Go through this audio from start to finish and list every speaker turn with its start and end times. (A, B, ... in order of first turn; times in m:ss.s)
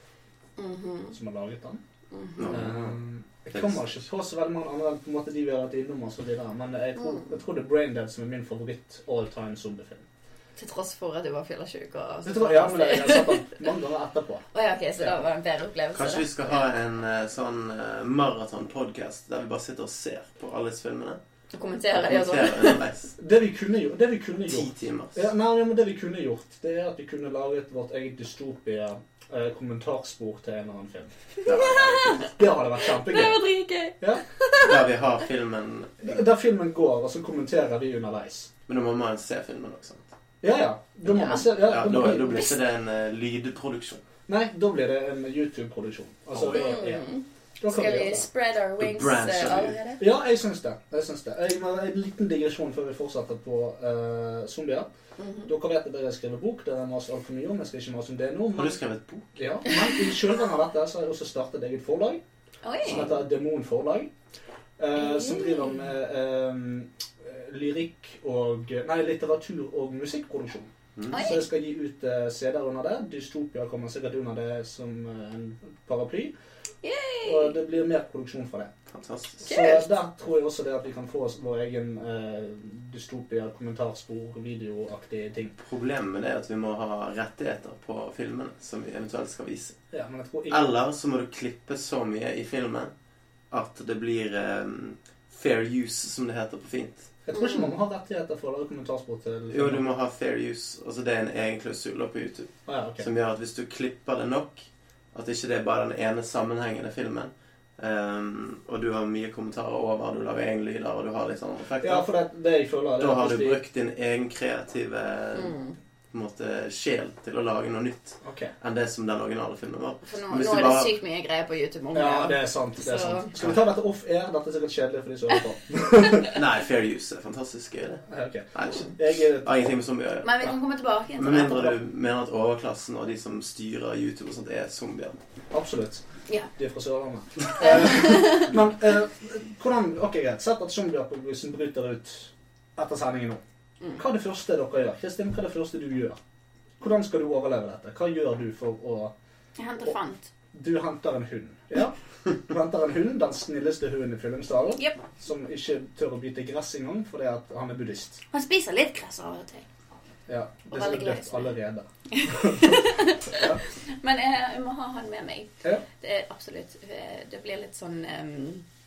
0:00.6-0:01.2 A
0:01.1-0:01.8 B
0:02.1-0:02.7 A
0:02.4-0:03.0 C
0:02.4-0:10.0 B
0:03.5-0:04.0 C
0:07.0-0:07.2 A
0:10.6-0:13.8 A
0:12.2-0:14.4 B
0:14.5-0:16.7 A
0:15.9-0:21.2 C
0:21.5-0:22.8 A
0:21.9-0:23.1 C
0:23.2-0:31.1 B
0:24.5-0:25.2 C
0:31.4-0:34.9 A
0:31.4-0:32.2 C
0:32.3-0:33.4 B
0:34.6-0:36.2 C
0:36.0-0:38.5 B
0:38.7-0:40.0 C
0:40.4-0:42.5 B
0:41.1-0:41.4 A
0:41.2-0:44.0 C
0:44.3-0:47.0 B
0:46.3-0:46.6 C
0:46.4-0:50.0 A
0:47.6-0:48.2 B
0:48.8-0:49.8 C
0:50.0-0:54.9 B
0:55.2-0:55.5 A
0:55.4-0:58.8 B
0:58.5-0:59.4 C
0:59.4-1:02.2 B
1:02.6-1:03.1 A
1:02.9-1:04.1 B
1:04.8-1:16.3 B
1:05.0-1:05.8 A
1:11.0-1:11.2 C
1:11.1-1:11.5 A
1:16.8-1:17.6 A
1:17.2-1:18.7 B
1:18.9-1:19.4 C
1:19.4-1:25.5 B
1:19.4-1:19.9 A
1:25.6-1:29.8 C
1:29.9-1:30.7 B
1:30.5-1:32.9 C
1:33.5-1:37.1 C
1:37.2-1:39.8 B
1:37.3-1:37.7 A
1:39.5-1:52.0 C
1:42.6-1:43.1 B
1:51.8-1:53.6 B
1:53.0-1:55.6 C
1:55.3-1:55.7 A
1:56.1-2:00.9 C
1:58.2-1:58.5 B
2:00.0-2:03.4 A
2:01.9-2:06.3 B
2:06.3-2:10.4 C
2:08.1-2:09.7 B
2:10.2-2:11.8 A
2:11.2-2:15.2 C
2:15.5-2:16.0 B
2:16.6-2:23.4 B
2:17.6-2:18.5 A
2:23.9-2:26.2 B
2:26.8-2:29.1 B
2:29.6-2:30.3 A
2:30.5-2:38.2 B
2:38.3-2:39.6 A
2:40.3-2:43.6 B
2:40.7-2:41.6 A
2:42.1-2:48.6 A